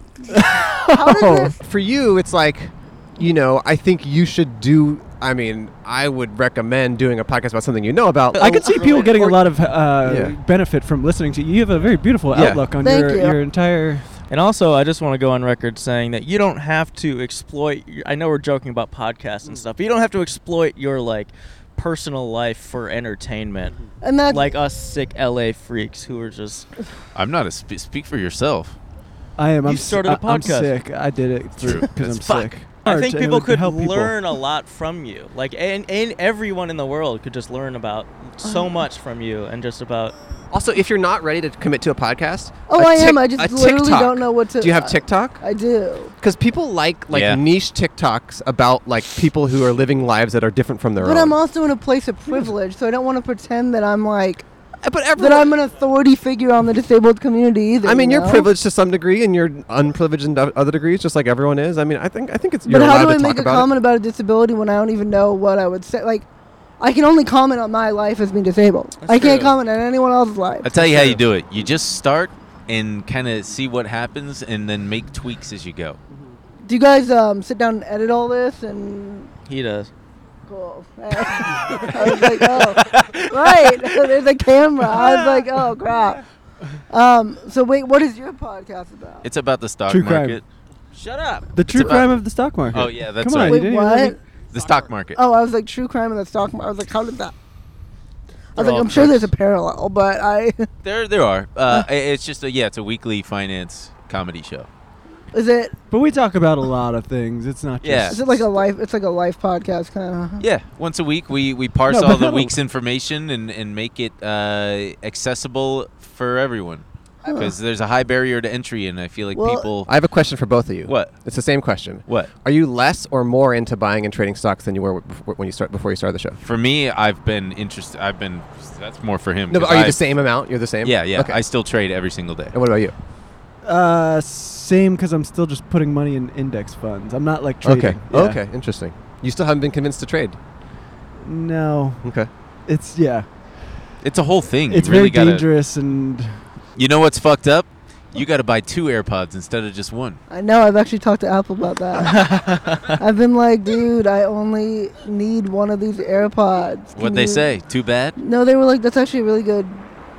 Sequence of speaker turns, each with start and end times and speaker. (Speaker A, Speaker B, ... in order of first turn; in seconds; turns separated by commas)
Speaker A: 0.3-1.5, Speaker B: 0.9-1.6, Speaker C: 1.6-9.0, Speaker A: 8.4-14.1, Speaker D: 8.4-9.3, Speaker C: 10.0-10.4, Speaker C: 12.3-12.7, Speaker B: 12.8-13.4, Speaker D: 14.3-23.8, Speaker B: 24.0-24.5, Speaker D: 24.3-26.7, Speaker E: 27.1-28.8, Speaker A: 29.4-34.2, Speaker D: 29.6-30.8, Speaker E: 31.6-32.3, Speaker D: 32.2-40.1, Speaker B: 38.4-38.8, Speaker C: 40.5-45.4, Speaker B: 42.7-46.1, Speaker C: 46.2-51.4, Speaker E: 47.1-47.4, Speaker B: 51.0-54.5, Speaker C: 54.8-55.5, Speaker B: 55.2-58.5, Speaker C: 57.8-63.7, Speaker B: 62.7-66.3, Speaker B: 66.8-70.8, Speaker D: 69.0-69.5, Speaker E: 70.6-76.0, Speaker B: 76.7-79.3, Speaker D: 79.5-79.9, Speaker B: 80.5-86.2, Speaker E: 81.8-83.7, Speaker E: 85.0-85.4, Speaker B: 86.9-89.3, Speaker E: 89.2-92.1, Speaker A: 89.9-90.4, Speaker A: 91.5-94.2, Speaker E: 92.7-93.7, Speaker B: 93.4-94.2, Speaker E: 94.5-95.2, Speaker B: 95.2-97.3, Speaker B: 98.5-100.7, Speaker D: 98.6-99.3, Speaker E: 100.8-104.7, Speaker B: 105.3-105.8, Speaker A: 105.9-108.5, Speaker E: 107.8-108.2, Speaker B: 108.1-110.5, Speaker E: 110.4-119.9, Speaker A: 111.9-112.5, Speaker B: 117.3-117.5, Speaker B: 119.3-119.7, Speaker C: 119.9-126.4, Speaker E: 120.9-121.2, Speaker E: 122.1-122.3, Speaker E: 126.4-130.1, Speaker C: 129.5-131.4, Speaker E: 130.8-132.6, Speaker C: 132.5-132.9, Speaker A: 133.6-138.4, Speaker C: 137.6-140.4, Speaker A: 141.2-142.1, Speaker C: 142.0-142.3, Speaker A: 142.7-143.3, Speaker E: 144.0-145.5, Speaker A: 144.7-146.4, Speaker E: 146.8-150.2, Speaker B: 150.3-157.5, Speaker D: 152.1-153.0, Speaker E: 156.9-158.2, Speaker B: 158.2-159.9